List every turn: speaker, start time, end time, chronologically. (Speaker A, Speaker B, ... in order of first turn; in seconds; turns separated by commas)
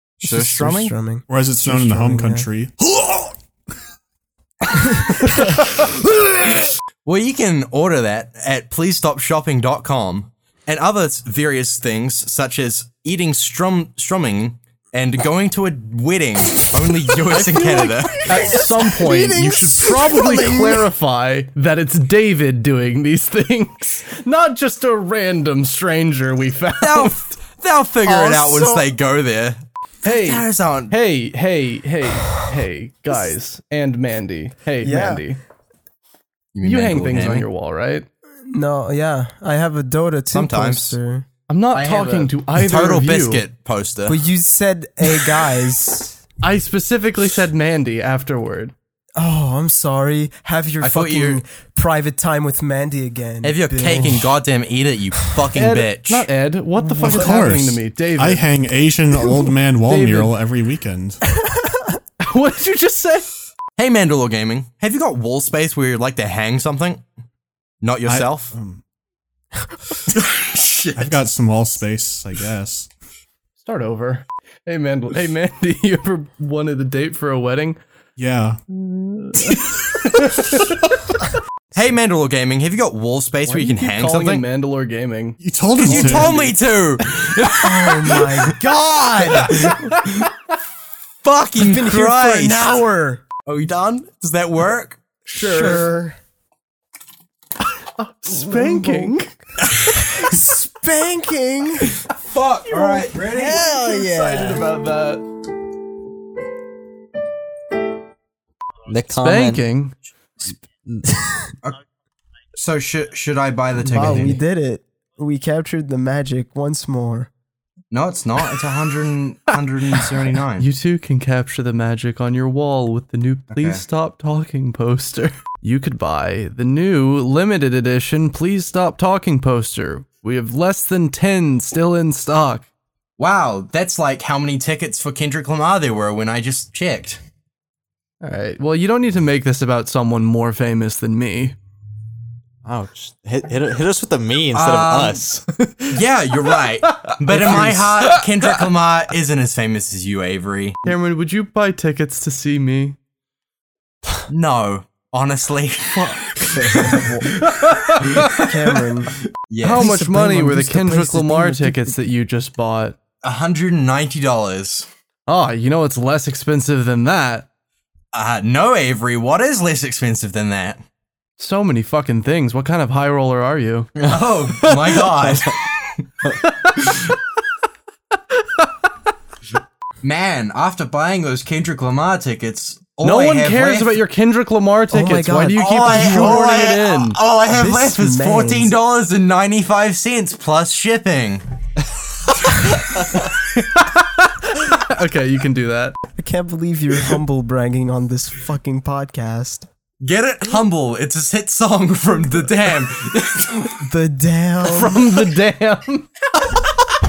Speaker A: 0.2-0.9, Speaker B: 0.2-2.5, Speaker C: 1.3-2.7, Speaker A: 7.0-18.6, Speaker D: 17.3-27.2, Speaker B: 18.0-20.9, Speaker A: 26.8-30.9, Speaker B: 28.0-28.9, Speaker D: 30.0-35.4, Speaker B: 34.8-35.2, Speaker A: 36.5-37.5, Speaker D: 36.6-38.1, Speaker B: 38.5-41.2, Speaker A: 40.3-41.0, Speaker D: 41.5-43.5, Speaker A: 41.7-44.2, Speaker B: 44.0-46.2, Speaker D: 46.4-48.7, Speaker B: 49.1-54.4, Speaker A: 50.8-51.4, Speaker A: 53.4-56.3, Speaker D: 55.5-58.4, Speaker B: 56.8-57.3, Speaker C: 57.0-61.2, Speaker D: 59.8-60.3, Speaker B: 61.6-61.9, Speaker D: 62.2-63.3, Speaker A: 63.8-67.0, Speaker A: 67.8-68.5, Speaker C: 68.1-68.8, Speaker A: 70.1-71.2, Speaker C: 70.9-72.9, Speaker D: 73.6-77.8, Speaker C: 78.2-78.6, Speaker D: 78.7-80.8, Speaker A: 81.7-84.5, Speaker D: 83.5-86.5, Speaker C: 85.4-86.3, Speaker A: 85.8-88.5, Speaker B: 87.6-89.8, Speaker A: 89.3-90.2, Speaker D: 89.5-90.0, Speaker A: 91.2-92.8, Speaker B: 91.6-93.2, Speaker A: 93.5-95.0, Speaker D: 95.3-95.9, Speaker B: 95.3-96.2, Speaker D: 97.8-99.3, Speaker B: 98.3-99.3, Speaker B: 99.9-101.9, Speaker A: 102.1-103.6, Speaker D: 102.7-105.2, Speaker B: 103.4-104.7, Speaker A: 108.9-109.6, Speaker D: 109.2-109.9, Speaker A: 112.5-114.4, Speaker B: 113.8-117.3, Speaker A: 117.9-120.7, Speaker D: 120.5-132.7, Speaker A: 123.5-123.8, Speaker A: 133.2-137.2, Speaker D: 138.2-141.6, Speaker E: 142.6-145.4, Speaker A: 144.5-145.3, Speaker A: 145.8-150.8, Speaker D: 146.8-148.2, Speaker D: 150.8-153.0, Speaker A: 154.3-157.1, Speaker D: 155.9-156.9, Speaker B: 156.5-157.5, Speaker D: 157.6-158.0, Speaker A: 158.1-158.5, Speaker B: 158.2-159.2, Speaker A: 159.5-159.9, Speaker D: 159.6-163.0, Speaker B: 159.7-162.0, Speaker A: 163.2-164.9, Speaker D: 165.3-167.5, Speaker A: 168.1-170.8, Speaker D: 171.4-173.9, Speaker A: 174.0-175.6, Speaker A: 180.0-184.0, Speaker D: 183.0-187.2, Speaker B: 184.9-186.7, Speaker A: 185.6-191.4, Speaker B: 187.5-188.8, Speaker A: 192.5-193.1, Speaker D: 193.8-196.0, Speaker B: 196.2-199.7, Speaker A: 200.0-203.8, Speaker B: 203.8-205.1, Speaker D: 204.6-206.1